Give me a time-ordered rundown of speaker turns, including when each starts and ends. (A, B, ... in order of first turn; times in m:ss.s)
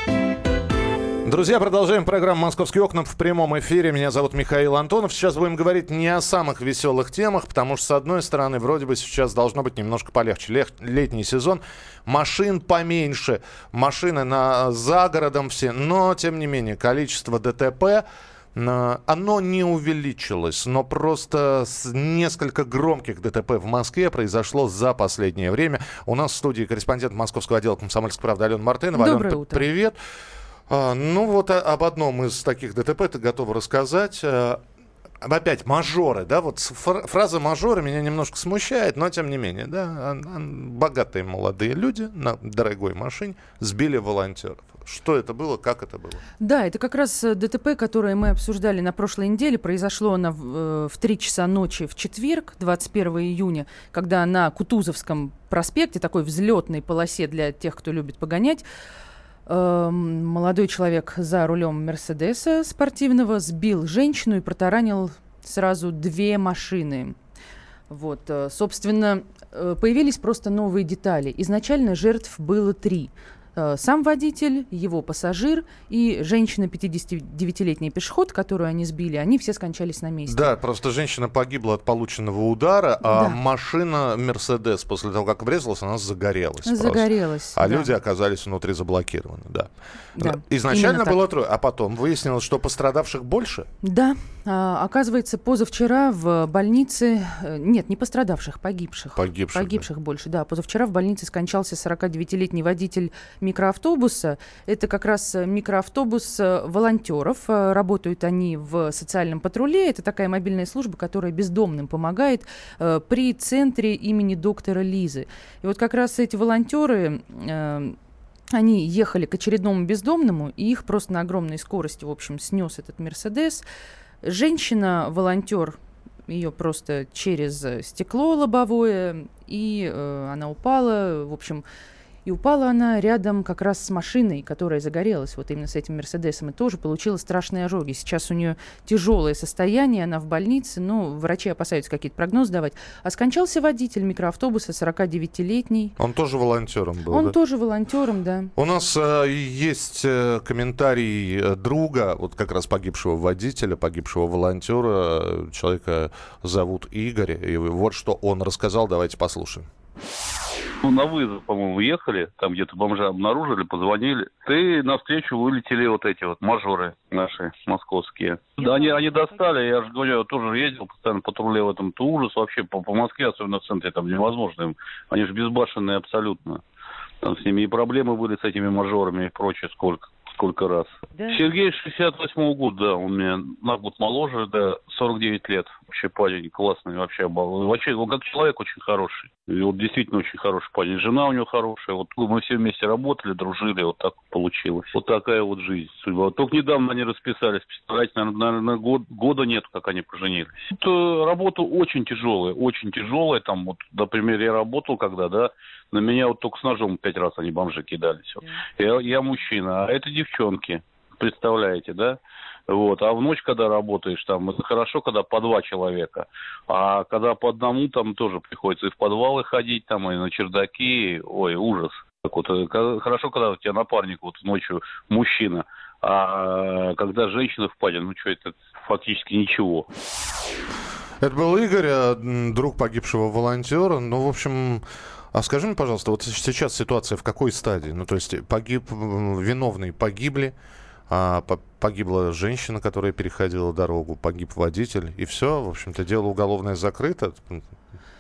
0:01.2-0:30.0 A
0:29.0-0:29.7 B
0:30.7-0:34.6 A
0:35.2-0:46.2 A
0:46.4-0:58.6 B
0:59.5-1:07.2 B
1:07.9-1:20.5 B
1:20.3-1:33.7 A
1:23.1-1:23.4 B
1:26.6-1:27.9 B
1:30.2-1:31.2 B
1:33.8-1:58.0 B
1:39.2-1:39.8 A
1:58.5-2:03.6 B
2:04.2-2:11.6 B
2:12.2-2:26.0 B
2:26.0-2:27.4 A
2:27.1-2:28.5 B
2:28.6-2:39.7 A
2:40.8-2:56.6 C
2:57.2-3:32.2 C
3:32.7-3:49.9 C
3:51.2-4:00.5 A
4:01.1-4:07.6 A